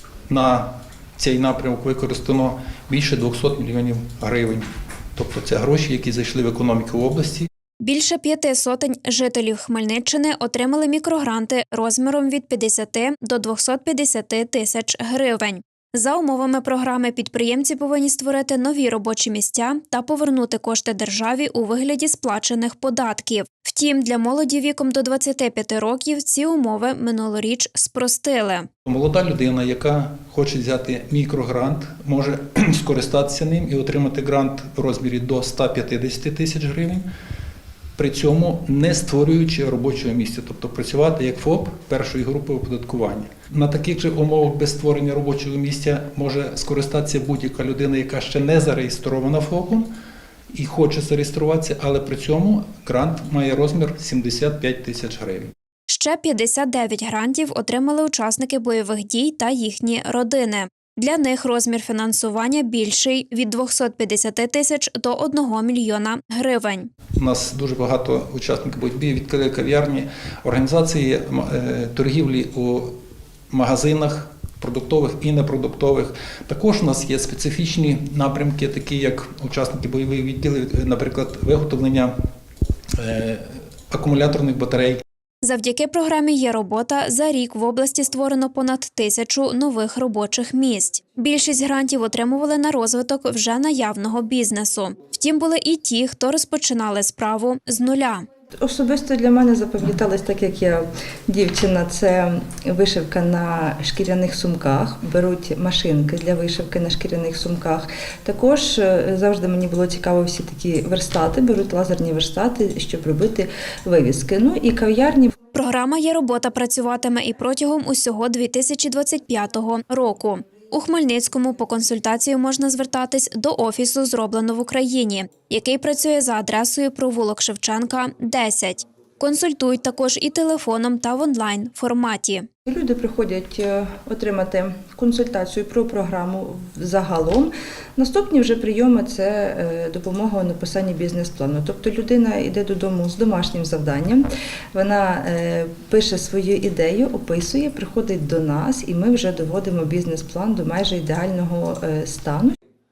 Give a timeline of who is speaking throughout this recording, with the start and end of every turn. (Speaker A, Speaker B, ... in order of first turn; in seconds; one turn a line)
Speaker A: 0.3-7.5
Speaker B: 7.8-28.7
Speaker A: 28.9-37.0
Speaker A: 38.0-49.9
Speaker A: 50.5-55.5
Speaker B: 55.9-66.9
Speaker A: 67.2-73.0
Speaker A: 73.5-82.1
Speaker A: 83.0-85.0
Speaker B: 85.4-98.2
Speaker C: 98.6-115.3
Speaker B: 115.5-132.4
Speaker C: 132.7-152.6